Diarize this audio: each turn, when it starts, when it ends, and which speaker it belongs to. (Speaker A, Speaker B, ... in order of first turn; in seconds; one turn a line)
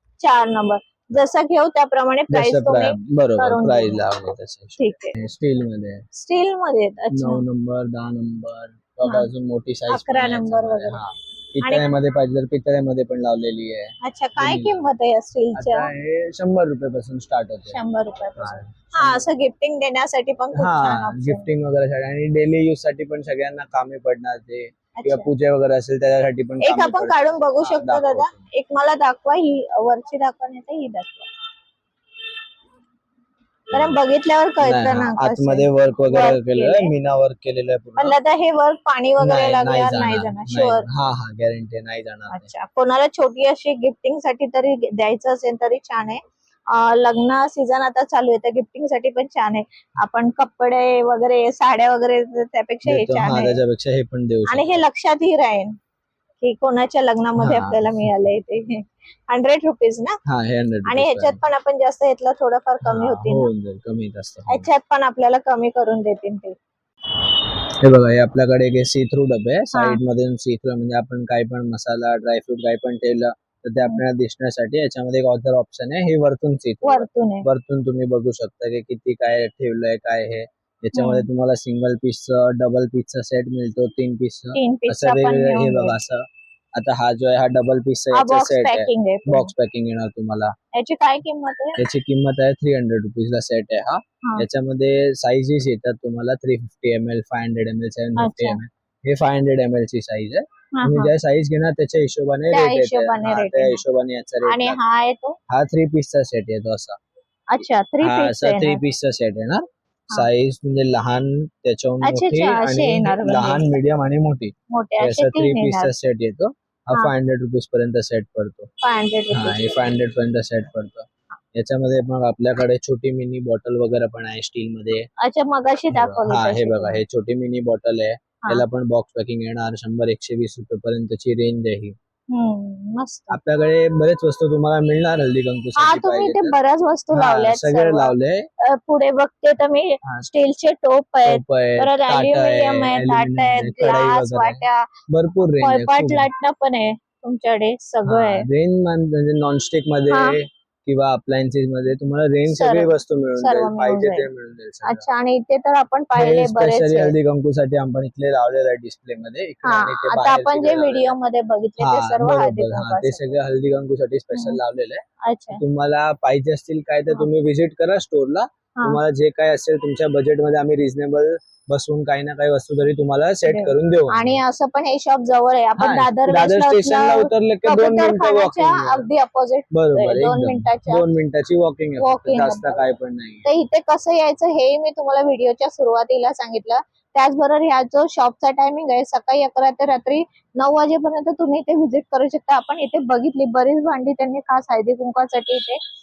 Speaker A: 0.2-4.1
Speaker B: 2.3-6.0
Speaker A: 4.8-5.2
Speaker A: 6.1-7.4
Speaker B: 7.1-14.8
Speaker A: 9.9-11.0
Speaker A: 11.6-11.9
Speaker A: 14.0-15.9
Speaker B: 15.5-17.8
Speaker A: 17.7-21.5
Speaker B: 18.4-19.3
Speaker B: 20.6-28.5
Speaker A: 25.0-25.3
Speaker A: 26.6-31.3
Speaker A: 33.7-36.9
Speaker B: 34.6-38.1
Speaker A: 38.0-40.9
Speaker B: 39.2-42.5
Speaker A: 42.3-53.6
Speaker B: 52.8-54.8
Speaker A: 54.5-55.7
Speaker A: 56.4-60.2
Speaker B: 57.4-58.1
Speaker B: 60.2-61.4
Speaker A: 60.9-63.5
Speaker B: 62.8-64.7
Speaker A: 64.5-66.5
Speaker B: 67.8-86.2
Speaker A: 69.7-70.0
Speaker A: 76.8-77.5
Speaker A: 80.9-81.3
Speaker A: 84.5-86.0
Speaker B: 86.7-90.5
Speaker A: 88.1-89.5
Speaker A: 90.7-91.8
Speaker B: 91.8-104.8
Speaker A: 98.2-98.6
Speaker A: 100.7-101.1
Speaker A: 102.5-103.8
Speaker A: 104.4-105.4
Speaker B: 105.5-107.0
Speaker A: 107.5-108.8
Speaker B: 108.0-118.7
Speaker A: 112.0-113.8
Speaker A: 114.7-115.9
Speaker A: 118.8-119.9
Speaker B: 119.3-125.1
Speaker A: 125.2-127.0
Speaker B: 125.9-131.9
Speaker A: 132.3-133.4
Speaker B: 133.3-136.6
Speaker A: 135.8-144.9
Speaker B: 137.1-138.5
Speaker B: 141.2-146.3
Speaker A: 145.6-148.4
Speaker B: 148.1-155.1
Speaker A: 150.1-150.4
Speaker A: 152.5-154.3
Speaker A: 154.8-157.1
Speaker B: 156.1-161.1
Speaker A: 159.6-163.4
Speaker B: 161.8-165.0
Speaker A: 164.3-164.6
Speaker A: 165.2-165.6
Speaker B: 165.5-174.4
Speaker A: 173.4-181.0
Speaker B: 175.8-179.1
Speaker B: 179.7-183.4
Speaker A: 182.0-182.8
Speaker A: 183.4-195.8